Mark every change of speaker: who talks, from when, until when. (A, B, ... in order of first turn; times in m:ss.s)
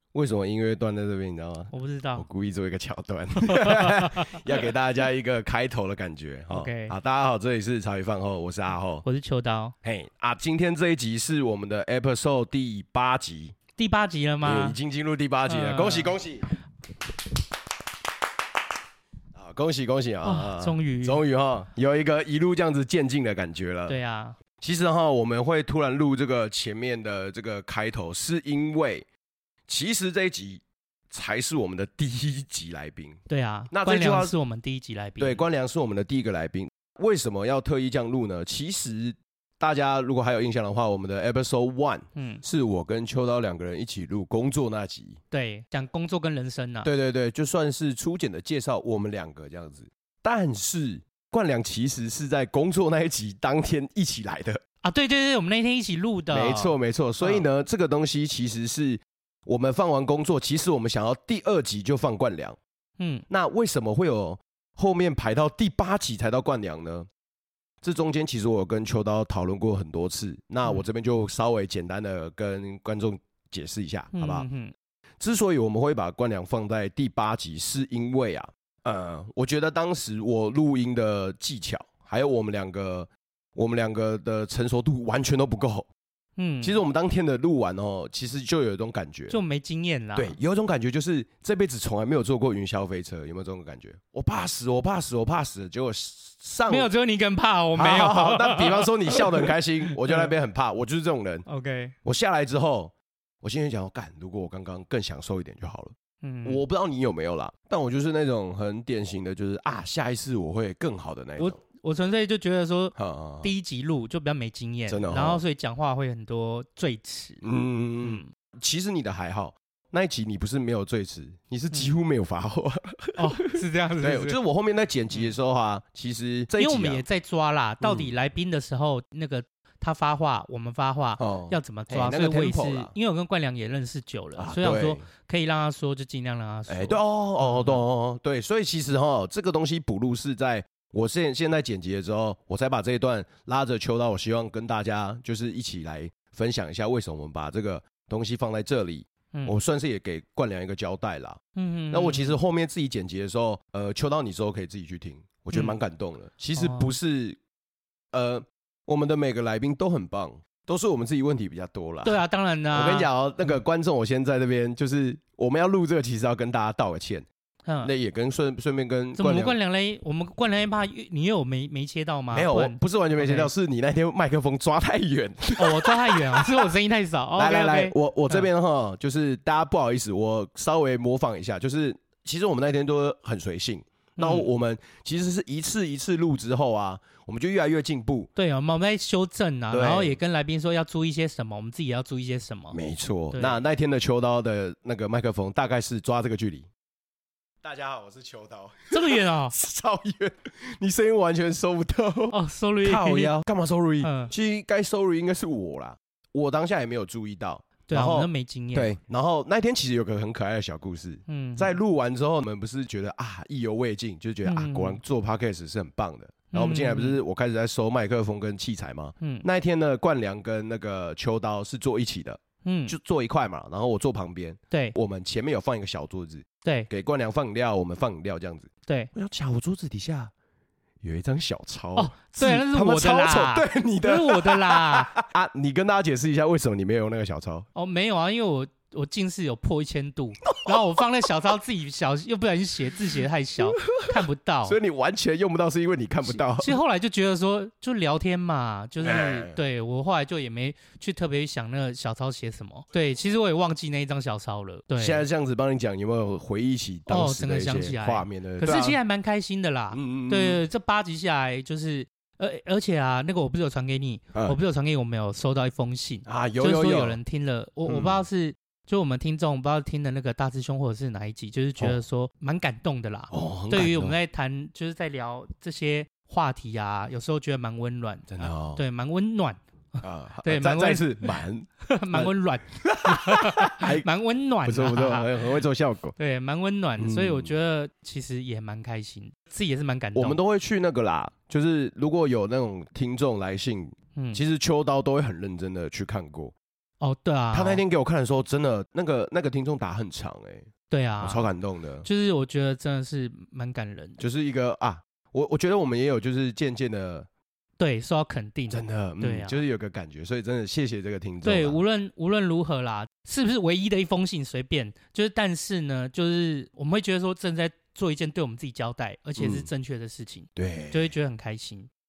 0:00.1-0:09.0 A
0:01.7-0:02.2 B
0:03.4-0:04.4 B
0:06.5-0:07.0 B
0:09.0-0:09.7 B
0:09.8-0:13.6 A
0:13.8-0:14.8 B
0:14.4-0:16.5 A
0:15.5-0:16.2 B
0:19.3-0:24.0 A
0:20.2-0:21.2 B
0:23.9-0:24.4 B
0:24.6-0:29.0 A
0:29.7-0:33.2 A
0:33.3-0:35.4 B
0:33.7-0:34.3 A
0:35.2-0:45.2 A
0:42.1-0:42.4 B
0:45.3-0:46.9 B
0:46.8-0:54.6 A
0:54.8-0:57.4 B
0:56.3-1:02.6 A
1:03.0-1:03.2 B
1:03.3-1:07.1 A
1:07.8-1:14.4 A
1:14.1-1:14.7 B
1:15.2-1:25.9 A
1:26.4-1:26.8 B
1:26.6-1:29.4 A
1:29.3-1:30.3 B
1:30.1-1:36.9 A
1:36.7-1:40.3 B
1:37.7-1:41.4 A
1:41.4-1:41.9 B
1:42.0-1:51.6 A
1:46.2-1:46.6 B
1:51.4-1:57.4 B
1:53.0-1:53.5 A
1:54.9-1:55.4 A
1:57.4-2:07.0 A
1:58.0-1:58.3 B
2:03.2-2:04.4 B
2:06.6-2:17.8 B
2:07.8-2:08.1 A
2:11.2-2:12.9 A
2:14.4-2:15.0 A
2:16.7-2:31.4 A
2:31.5-2:32.3 B
2:31.9-2:37.4 A
2:36.6-2:36.9 B
2:38.1-2:42.2 A
2:42.0-2:43.1 B
2:42.7-2:47.2 A
2:47.6-2:47.9 B
2:47.8-2:49.6 A
2:49.2-2:53.5 B
2:52.3-2:56.7 A
2:55.6-2:58.5 B
2:57.4-3:08.3 A
3:04.2-3:04.5 B
3:08.4-3:12.8 B
3:09.7-3:10.2 A
3:12.7-3:16.7 A
3:13.3-3:13.6 B
3:17.6-3:50.3 A
3:18.9-3:19.5 B
3:22.3-3:23.3 B
3:24.0-3:24.3 B
3:27.9-3:28.9 B
3:31.3-3:31.7 B
3:34.4-3:35.0 B
3:36.5-3:37.2 B
3:42.6-3:43.0 B
3:46.6-3:46.9 B
3:51.0-3:57.6 A
3:52.0-3:55.2 B
3:57.7-4:04.8 B
4:00.5-4:00.8 A
4:03.9-4:06.8 A
4:06.3-4:15.2 B
4:09.0-4:09.6 A
4:15.0-4:19.0 A
4:17.1-4:45.5 B
4:19.9-4:20.6 A
4:26.2-4:27.2 A
4:27.9-4:28.2 A
4:33.3-4:34.1 A
4:38.3-4:38.8 A
4:40.0-4:44.1 A
4:44.6-4:46.1 A
4:46.2-4:50.4 B
4:47.0-4:47.5 A
4:50.1-4:56.5 A
4:54.2-4:54.4 B
4:57.0-4:57.8 B
4:57.5-5:00.7 A
5:00.9-5:01.4 B
5:01.2-5:02.1 A
5:02.0-5:04.2 B
5:04.2-5:07.3 A
5:07.8-5:09.6 B
5:08.7-5:11.8 A
5:11.4-5:21.9 B
5:19.4-5:19.7 A
5:20.6-5:21.1 A